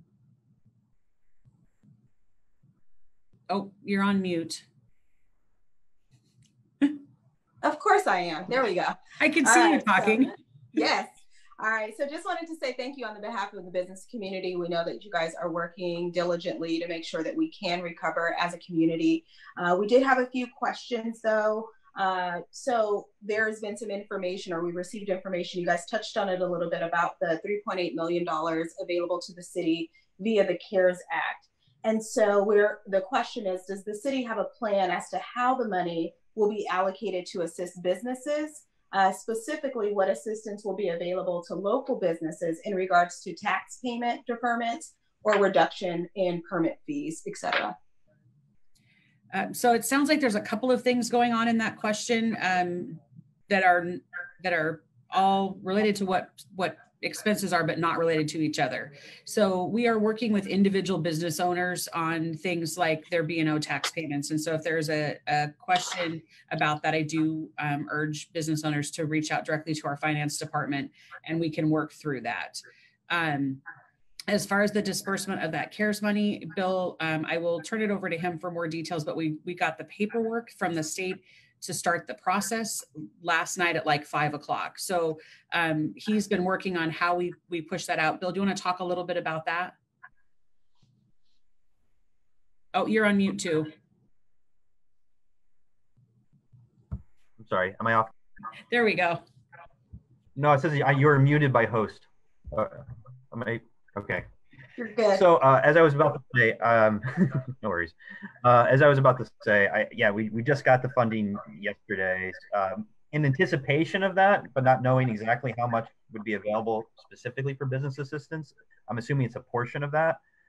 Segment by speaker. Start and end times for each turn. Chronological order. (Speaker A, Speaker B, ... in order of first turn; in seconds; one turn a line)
Speaker A: 3.5-4.7
Speaker B: 7.6-47.8
Speaker A: 9.2-10.3
Speaker A: 49.3-73.6
Speaker A: 74.3-89.7
Speaker A: 92.7-93.7
Speaker C: 97.4-98.1
Speaker A: 98.7-99.2
Speaker C: 100.4-104.2
Speaker B: 104.8-105.2
Speaker C: 105.1-120.2